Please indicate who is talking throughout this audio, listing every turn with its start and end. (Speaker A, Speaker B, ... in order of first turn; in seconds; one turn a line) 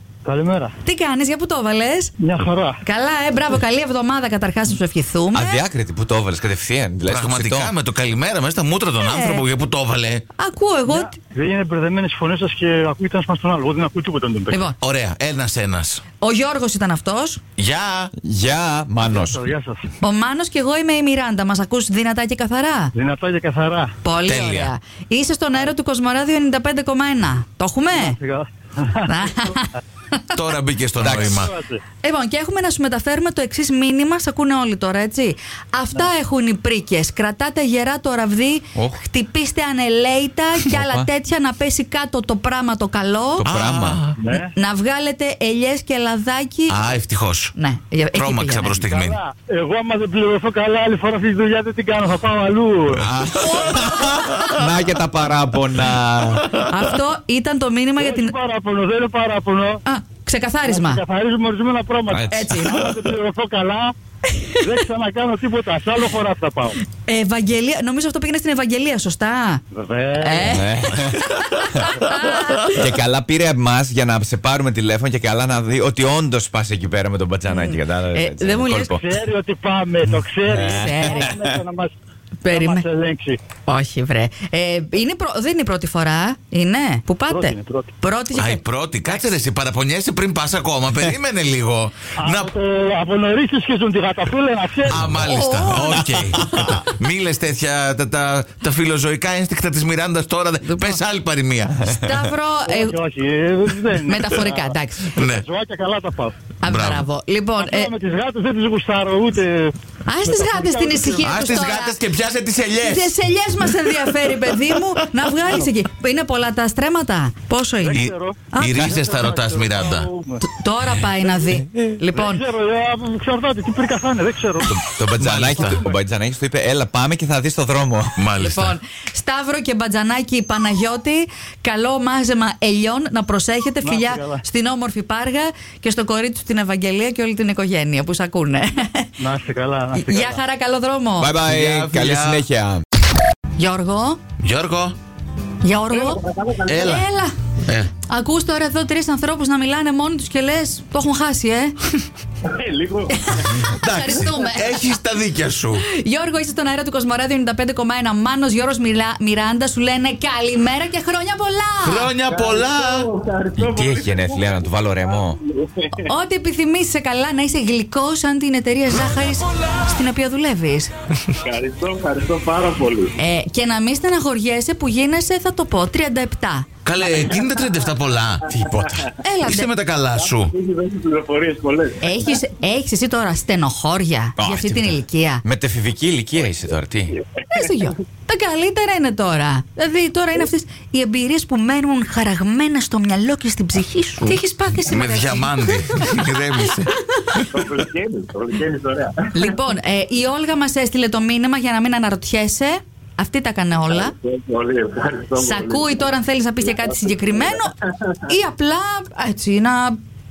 Speaker A: 0.2-0.7
Speaker B: 0.8-2.1
Speaker A: 2.2-2.8
Speaker B: 2.8-5.6
Speaker C: 5.3-7.7
Speaker D: 7.0-10.2
Speaker B: 9.0-9.4
Speaker B: 10.4-11.2
Speaker A: 10.9-14.6
Speaker D: 14.8-16.0
Speaker B: 16.2-17.4
Speaker D: 17.6-18.1
Speaker C: 18.2-19.4
Speaker A: 19.1-19.8
Speaker B: 20.0-22.9
Speaker A: 22.9-23.9
Speaker B: 24.0-28.2
Speaker D: 24.2-24.7
Speaker A: 27.9-29.1
Speaker B: 29.0-30.2
Speaker D: 30.3-31.5
Speaker C: 31.0-31.4
Speaker A: 31.1-31.8
Speaker B: 32.0-43.5
Speaker C: 40.7-41.1
Speaker C: 43.4-44.0
Speaker D: 43.4-44.2
Speaker A: 44.2-44.5
Speaker B: 44.5-46.8
Speaker D: 46.7-47.5
Speaker B: 47.5-48.8
Speaker D: 48.1-49.2
Speaker A: 48.8-53.0
Speaker C: 53.0-56.4
Speaker B: 53.4-54.5
Speaker B: 56.7-58.3
Speaker A: 58.0-59.8
Speaker B: 59.9-61.0
Speaker A: 60.7-63.9
Speaker C: 62.1-62.8
Speaker B: 62.3-62.8
Speaker B: 64.3-64.8
Speaker A: 64.6-66.8
Speaker B: 67.0-69.6
Speaker A: 69.7-70.5
Speaker B: 70.2-72.8
Speaker C: 70.4-71.2
Speaker D: 71.3-71.8
Speaker C: 72.7-79.0
Speaker B: 77.5-79.0
Speaker A: 78.9-81.9
Speaker C: 80.5-81.6
Speaker B: 80.5-81.3
Speaker B: 82.4-82.8
Speaker A: 82.5-83.4
Speaker B: 83.7-88.6
Speaker A: 87.3-87.9
Speaker D: 88.3-92.5
Speaker A: 92.2-95.1
Speaker D: 94.8-102.0
Speaker B: 95.2-96.7
Speaker B: 100.7-101.0
Speaker B: 101.9-103.0
Speaker A: 102.7-104.7
Speaker B: 104.0-105.2
Speaker D: 105.1-105.4
Speaker A: 105.2-106.4
Speaker B: 106.6-107.9
Speaker D: 106.6-107.1
Speaker A: 107.6-109.7
Speaker B: 110.0-112.0
Speaker A: 110.2-111.4
Speaker D: 111.2-115.2
Speaker B: 112.8-119.0
Speaker A: 117.8-120.4
Speaker D: 118.5-120.1
Speaker B: 120.4-122.4
Speaker A: 122.1-124.7
Speaker C: 124.7-128.2
Speaker D: 125.2-125.8
Speaker D: 128.2-128.8
Speaker B: 128.4-139.1
Speaker A: 133.8-134.4
Speaker A: 139.2-140.4
Speaker B: 140.0-141.3
Speaker C: 141.2-142.8
Speaker D: 141.5-142.4
Speaker B: 143.6-144.2
Speaker D: 144.4-145.0
Speaker B: 145.6-146.2
Speaker E: 145.9-147.0
Speaker D: 146.7-147.0
Speaker B: 146.8-147.3
Speaker D: 147.6-147.9
Speaker B: 148.0-151.7
Speaker E: 152.4-153.7
Speaker B: 153.2-154.8
Speaker D: 153.7-155.9
Speaker B: 155.8-162.1
Speaker D: 161.8-163.1
Speaker E: 162.2-166.1
Speaker C: 163.6-165.4
Speaker B: 166.0-170.9
Speaker E: 171.4-173.1
Speaker B: 173.2-176.7
Speaker D: 176.8-178.5
Speaker C: 178.5-179.1
Speaker B: 179.2-179.7
Speaker D: 179.4-180.5
Speaker E: 180.1-182.2
Speaker B: 182.0-185.4
Speaker C: 184.4-187.2
Speaker B: 187.5-197.4
Speaker D: 194.8-197.6
Speaker E: 197.5-199.3
Speaker B: 199.3-204.1
Speaker E: 203.9-206.0
Speaker B: 205.4-207.7
Speaker E: 206.7-208.1
Speaker B: 208.3-210.0